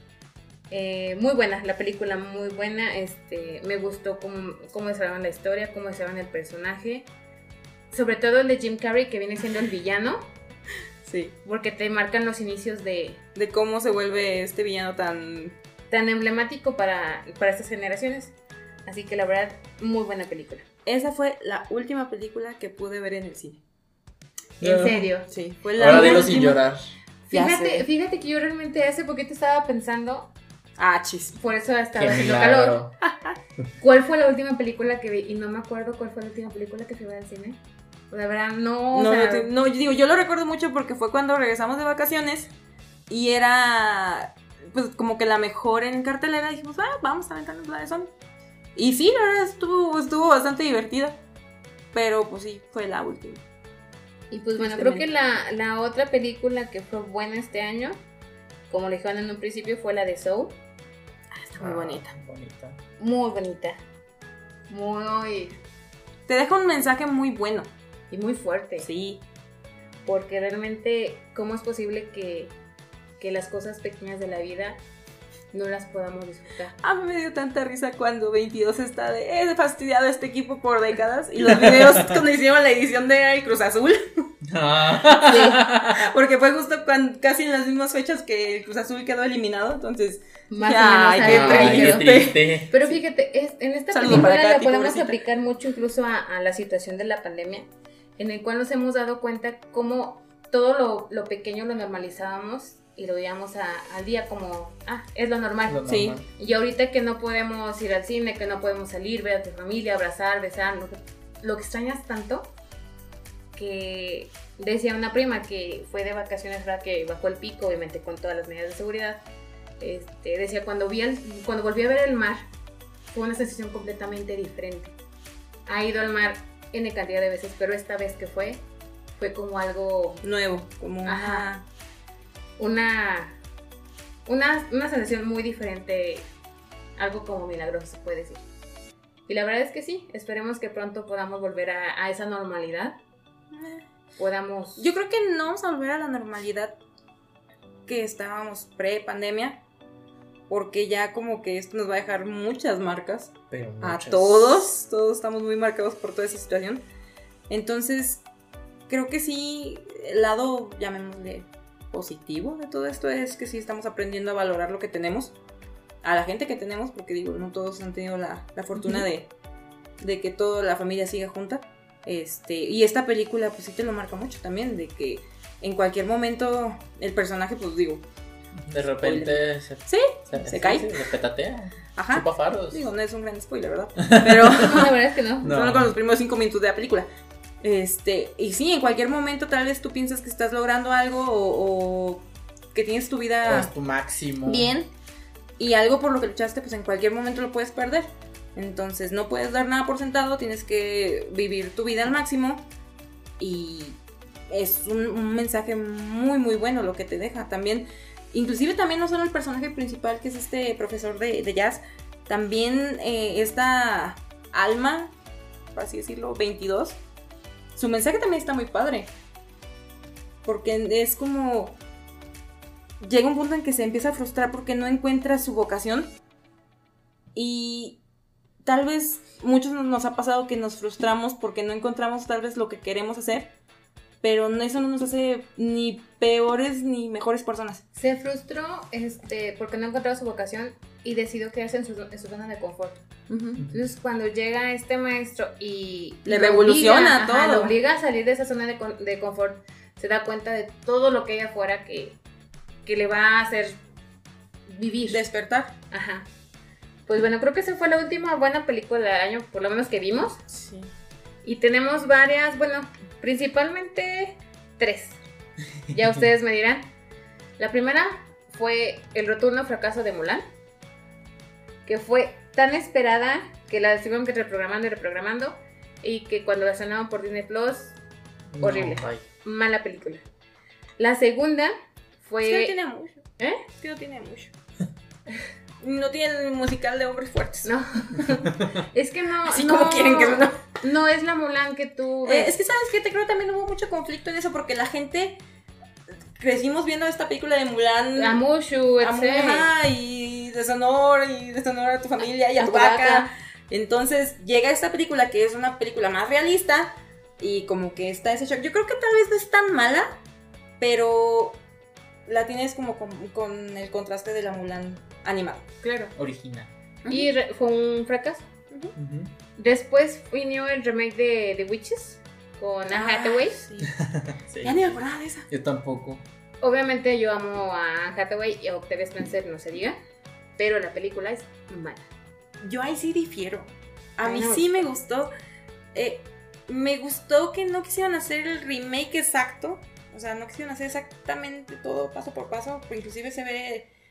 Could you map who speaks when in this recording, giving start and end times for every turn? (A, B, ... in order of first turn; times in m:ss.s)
0:00.7-0:07.1 A
0:07.9-0:10.3 A
0:11.1-0:11.3 B
0:11.4-0:13.2 A
0:13.4-0:15.6 B
0:15.9-0:18.3 A
0:18.9-0:20.6 A
0:20.8-0:23.6 B
0:24.6-0:25.3 A
0:24.6-0:25.1 C
0:25.3-0:26.7 B
0:25.8-0:26.9 C
0:25.8-0:26.3 A
0:27.3-0:30.3 A
0:27.3-0:27.9 B
0:30.8-0:31.4 B
0:31.4-0:32.8 A
0:32.0-0:32.9 C
0:33.0-0:33.4 B
0:33.8-0:37.6 A
0:38.1-0:39.5 A
0:38.9-0:42.5 B
0:43.1-0:48.1 B
0:48.8-0:51.2 B
0:51.9-0:53.4 B
0:54.3-0:58.0 A
0:54.6-0:55.0 B
0:58.7-1:00.6 A
1:01.3-1:02.1 B
1:01.6-1:02.8 C
1:03.0-1:03.8 A
1:04.7-1:05.6 A
1:06.3-1:07.7 B
1:08.1-1:08.9 A
1:08.8-1:09.2 B
1:10.1-1:12.5 A
1:13.2-1:14.8 A
1:15.5-1:16.8 A
1:16.8-1:24.3 B
1:21.5-1:22.2 C
1:24.5-1:26.1 C
1:25.2-1:25.6 A
1:25.8-1:32.6 B
1:30.5-1:37.7 A
1:31.2-1:32.7 C
1:33.9-1:35.2 B
1:38.2-1:52.5 A
1:45.7-1:46.3 C
1:45.9-1:46.2 B
1:53.6-1:59.2 A
1:59.8-2:02.5 A
2:03.1-2:05.0 A
2:05.7-2:08.6 A
2:09.2-2:10.2 A
2:10.2-2:11.6 B
2:11.0-2:11.5 A
2:12.6-2:13.4 A
2:14.3-2:16.3 A
2:17.0-2:18.4 A
2:19.3-2:23.0 A
2:23.5-2:23.8 B
2:24.2-2:24.9 A
2:24.8-2:26.8 B
2:27.9-2:29.6 B
2:30.5-2:36.8 B
2:33.5-2:34.6 C
2:37.5-2:38.2 B
2:38.9-2:45.3 B
2:46.0-2:49.3 B
2:48.8-2:49.1 A
2:50.0-2:58.0 B
2:58.7-3:02.8 C
2:59.0-3:01.0 B
3:02.0-3:07.1 B
3:04.0-3:04.8 C
3:04.5-3:05.5 A
3:05.4-3:05.9 C
3:07.6-3:13.7 B
3:13.5-3:14.7 C
3:14.4-3:14.9 B
3:15.6-3:22.7 B
3:23.4-3:24.0 B
3:24.5-3:35.1 B
3:35.8-3:37.0 B
3:37.8-3:39.1 B
3:40.4-3:41.8 B
3:43.0-3:46.1 B
3:47.4-3:48.0 B
3:48.6-3:53.5 B
3:54.2-3:57.8 B
3:58.0-4:03.0 A
4:03.3-4:03.6 B
4:03.7-4:12.2 A
4:06.3-4:07.8 B
4:12.9-4:13.8 A
4:14.7-4:15.2 A
4:15.1-4:15.7 B
4:15.9-4:16.3 A
4:17.1-4:20.4 A
4:20.5-4:20.9 B
4:21.4-4:25.2 A
4:25.9-4:26.9 A
4:27.6-4:30.4 A
4:31.9-4:38.0 A
4:38.5-4:39.2 C
4:38.6-4:40.2 A
4:41.0-4:42.7 A
4:42.4-4:44.5 B
4:43.4-4:43.6 A
4:45.8-4:47.7 B
4:47.6-4:52.6 A
4:49.5-4:50.6 B
4:52.2-4:55.4 B
4:56.4-4:58.4 B
4:58.2-4:59.7 A
4:59.0-5:10.2 B
5:02.6-5:03.3 A
5:10.8-5:11.6 B
5:12.3-5:15.7 B
5:15.8-5:16.1 A
5:16.2-5:16.7 C
5:17.0-5:17.3 B
5:17.1-5:18.4 A
5:19.0-5:19.3 C
5:19.6-5:23.6 A
5:22.9-5:23.9 B
5:23.8-5:25.0 C
5:24.6-5:25.5 B
5:25.5-5:26.2 C
5:26.6-5:30.0 A
5:30.6-5:32.1 A
5:32.6-5:35.3 B
5:34.2-5:34.8 A
5:35.9-5:43.9 B